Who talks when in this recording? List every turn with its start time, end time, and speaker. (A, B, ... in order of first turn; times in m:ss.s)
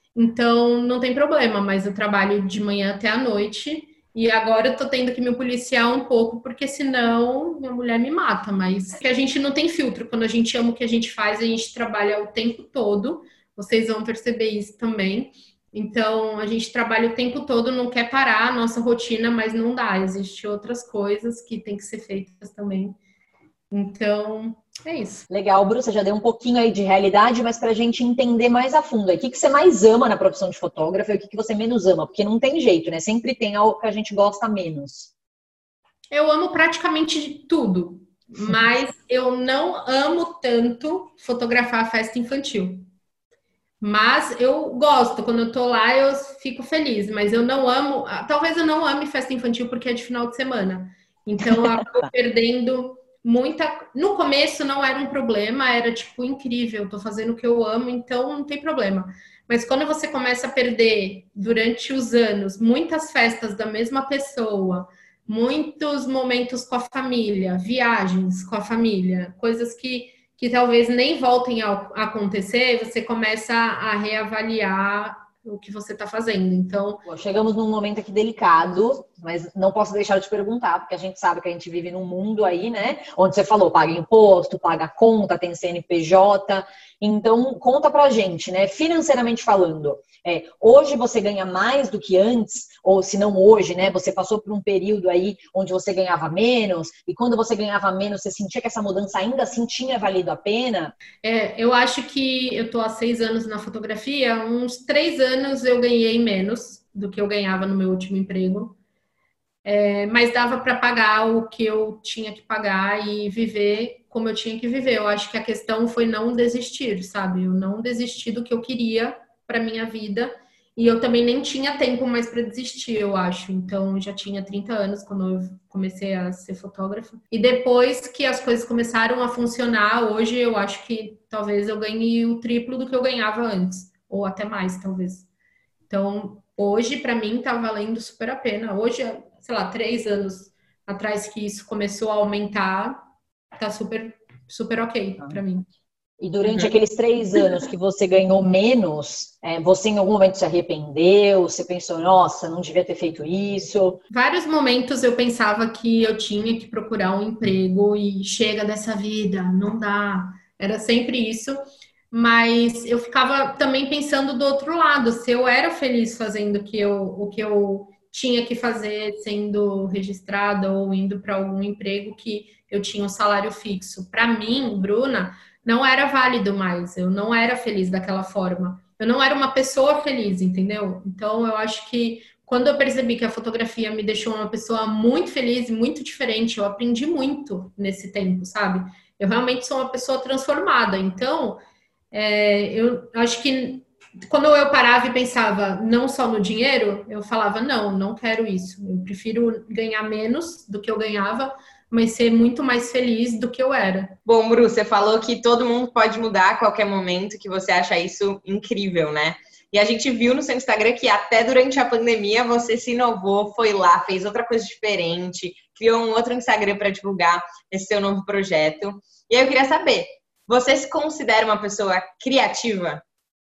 0:00.2-0:23.0 A
0:23.7-0:25.3 A
0:25.3-0:35.1 B
0:36.1-0:42.9 A
0:43.8-1:17.0 A
1:17.0-1:40.9 B
1:41.2-1:48.8 A
1:49.6-2:15.3 A
2:15.9-2:23.0 A
2:23.6-2:25.7 A
2:26.2-2:34.0 B
2:26.4-2:26.8 C
2:34.1-2:41.6 A
2:42.1-3:11.6 A
3:12.1-3:24.2 A
3:24.3-3:43.0 C